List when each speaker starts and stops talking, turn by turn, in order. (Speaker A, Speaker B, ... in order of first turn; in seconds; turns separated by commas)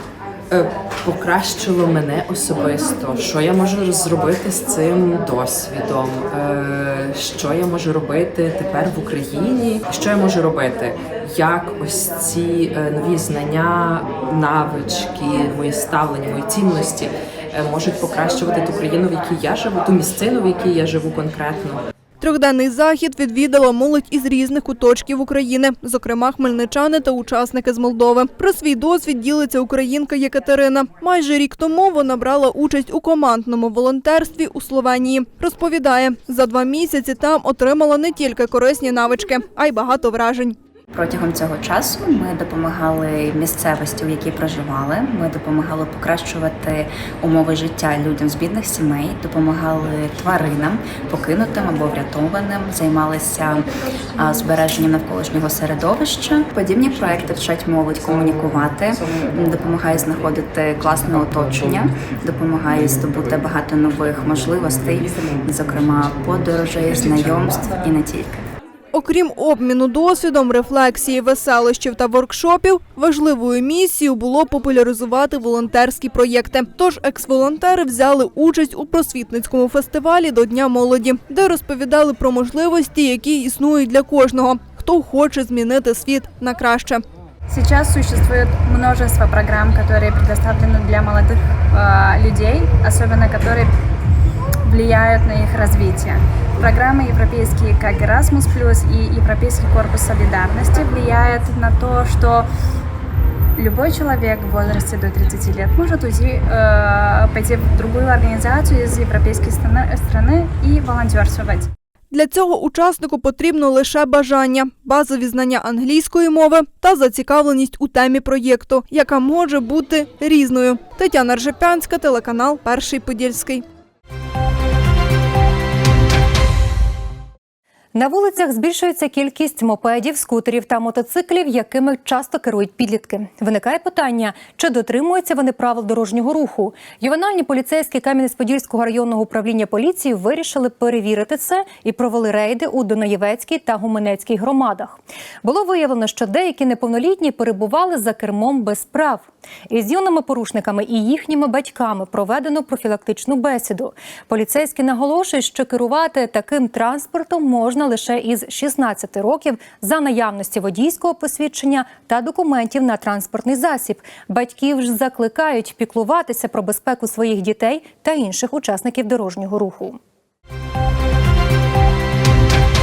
Speaker A: 0.5-21.8, Speaker B: 22.2-40.5, Speaker C: 40.9-68.4, Speaker B: 68.9-87.0, Speaker D: 87.5-93.7, Speaker D: 94.6-102.5, Speaker D: 103.6-111.7, Speaker B: 112.1-123.6, Speaker E: 127.9-170.0